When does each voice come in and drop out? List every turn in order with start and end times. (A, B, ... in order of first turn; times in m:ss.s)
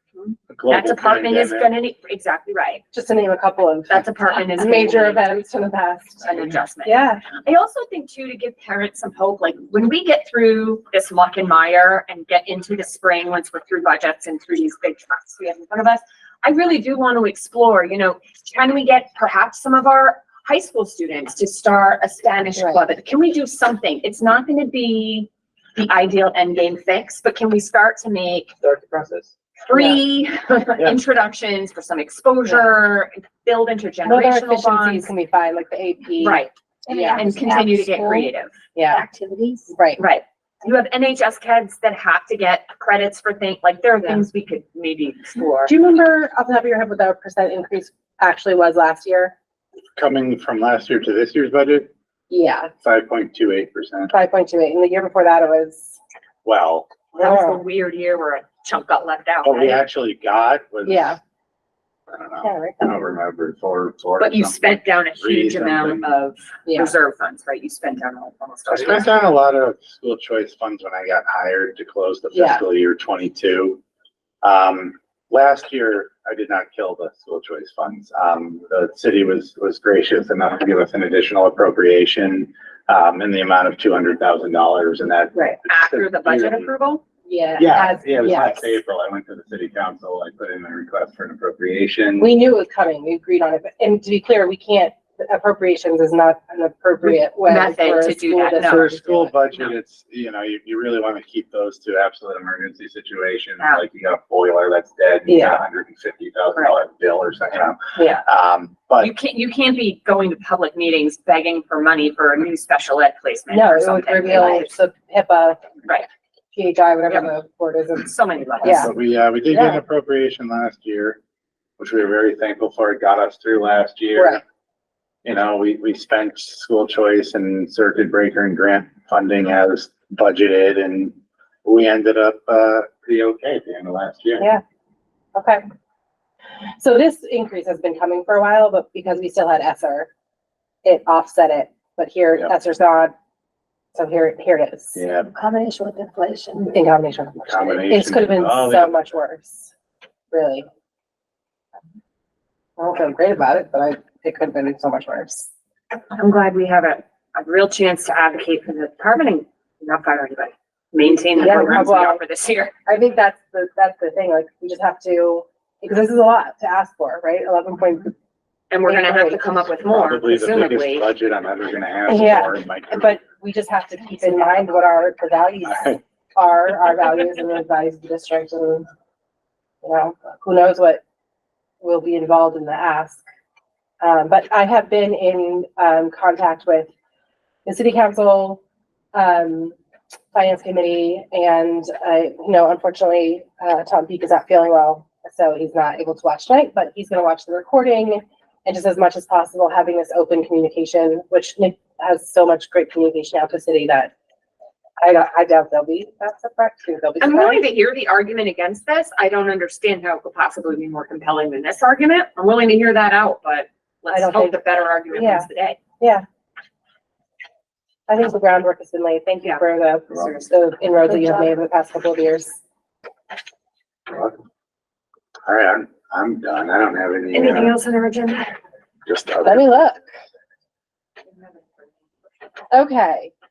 0:00.5-0:01.7 A
0:00.7-0:02.8 B
0:02.9-0:07.3 C
0:03.9-0:05.2 B
0:06.2-0:28.5 B
0:22.6-0:22.8 C
0:28.6-0:29.3 A
0:29.6-0:35.1 B
0:29.7-0:30.0 C
0:32.5-0:32.7 C
0:34.0-0:37.3 C
0:36.2-0:36.5 B
0:36.8-0:38.3 D
0:37.1-0:38.5 B
0:38.7-0:39.0 C
0:38.9-0:39.7 D
0:39.7-0:40.0 C
0:40.0-0:45.7 B
0:45.6-0:49.3 C
0:50.0-0:51.9 A
0:52.3-0:52.7 C
0:52.8-0:54.1 A
0:54.1-0:56.0 C
0:56.4-0:56.9 A
0:57.1-0:57.6 C
0:57.1-0:59.8 B
0:59.4-1:01.2 A
1:00.8-1:01.2 C
1:02.1-1:06.0 A
1:02.4-1:02.9 C
1:04.2-1:09.2 B
1:06.7-1:06.9 C
1:08.7-1:13.8 A
1:12.3-1:12.6 C
1:14.4-1:26.7 A
1:25.3-1:27.0 B
1:27.3-1:28.8 C
1:27.6-1:32.3 A
1:32.2-1:39.3 C
1:37.4-1:39.1 B
1:38.6-1:49.1 A
1:45.3-1:45.6 C
1:49.0-1:54.7 B
1:53.5-1:55.6 C
1:56.5-1:58.1 C
1:58.0-1:58.9 B
1:58.6-1:58.9 C
1:58.7-2:01.2 A
1:59.5-1:59.8 C
2:01.8-2:04.4 A
2:04.2-2:04.4 C
2:05.2-2:14.5 A
2:15.3-2:15.6 C
2:16.8-2:20.1 C
2:20.8-2:23.1 C
2:23.9-2:25.0 C
2:25.0-2:25.3 A
2:25.3-2:26.8 D
2:26.7-2:29.7 C
2:27.4-2:29.0 A
2:30.3-2:30.6 C
2:32.8-2:35.5 C
2:36.1-2:42.7 B
2:41.4-2:42.2 C
2:42.8-2:48.1 C
2:48.7-2:51.0 B
2:48.8-2:49.6 C
2:49.9-2:53.2 A
2:52.1-2:58.8 C
2:55.7-2:56.0 A
2:59.8-3:01.0 C
3:01.8-3:03.2 C
3:04.0-3:06.9 C
3:07.6-3:08.6 C
3:09.1-3:09.7 C
3:10.3-3:24.1 C
3:25.0-3:27.7 C
3:27.2-3:35.8 B
3:34.1-3:35.5 C
3:38.1-3:42.5 C
3:39.4-3:40.8 B
3:44.1-3:44.4 A
3:45.4-3:47.8 A
3:47.3-3:48.5 B
3:49.0-3:49.8 A
3:49.4-3:50.0 C
3:52.7-3:53.3 C